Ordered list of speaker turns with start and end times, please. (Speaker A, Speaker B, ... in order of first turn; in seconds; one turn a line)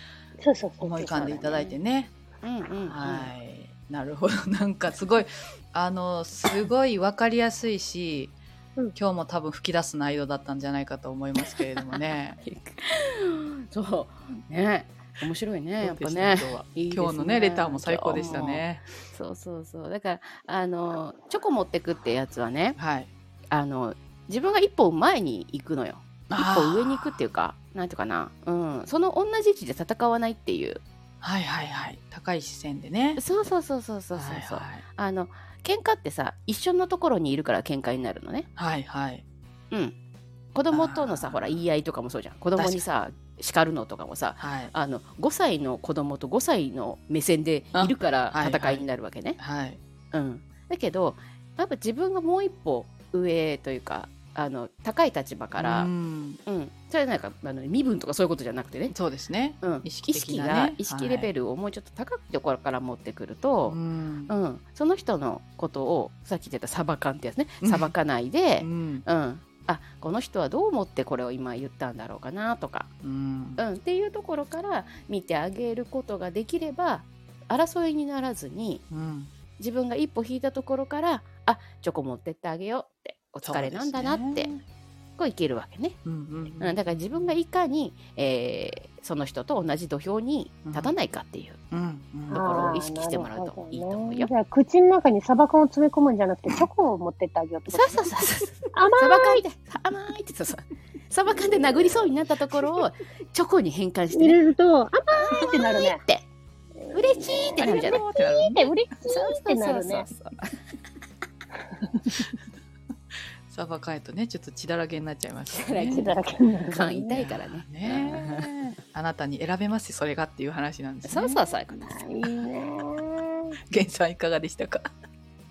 Speaker A: 0.4-1.6
Speaker B: 0.8-2.1
Speaker C: 1.1-1.8
Speaker C: 2.4-3.3
Speaker B: 2.9-8.3
Speaker B: 8.9-12.4
Speaker C: 12.4-22.8
Speaker B: 15.8-18.8
Speaker B: 22.8-23.1
Speaker C: 23.5-30.8
Speaker B: 26.3-27.2
Speaker B: 31.2-33.2
Speaker C: 33.1-38.5
Speaker B: 34.1-34.8
Speaker B: 38.5-39.2
Speaker C: 40.5-49.4
Speaker B: 40.7-41.6
Speaker B: 42.5-42.8
Speaker B: 44.4-44.7
Speaker B: 47.7-48.9
Speaker B: 49.4-49.8
Speaker C: 50.1-55.9
Speaker B: 55.6-56.4
Speaker C: 56.5-58.9
Speaker B: 58.9-61.3
Speaker C: 59.6-72.9
Speaker B: 63.6-64.3
Speaker B: 67.6-67.9
Speaker B: 68.6-69.0
Speaker B: 73.0-73.6
Speaker C: 73.6-78.8
Speaker B: 78.9-79.3
Speaker C: 79.6-84.5
Speaker B: 83.4-84.6
Speaker C: 85.2-86.0
Speaker B: 86.0-87.3
Speaker C: 86.6-91.6
Speaker B: 90.6-90.9
Speaker B: 91.7-92.4
Speaker C: 92.3-94.3
Speaker A: 92.3-98.1
Speaker C: 97.7-104.4
Speaker A: 98.7-99.4
Speaker A: 104.1-106.0
Speaker C: 105.1-106.3
Speaker A: 106.8-110.1
Speaker C: 106.9-108.0
Speaker B: 107.6-108.7
Speaker C: 109.1-110.6
Speaker A: 111.9-112.3
Speaker B: 113.5-116.0
Speaker C: 115.5-116.2
Speaker A: 115.9-117.2
Speaker C: 116.7-118.5
Speaker B: 117.1-121.4
Speaker C: 121.0-122.1
Speaker A: 121.7-123.5
Speaker B: 123.7-124.9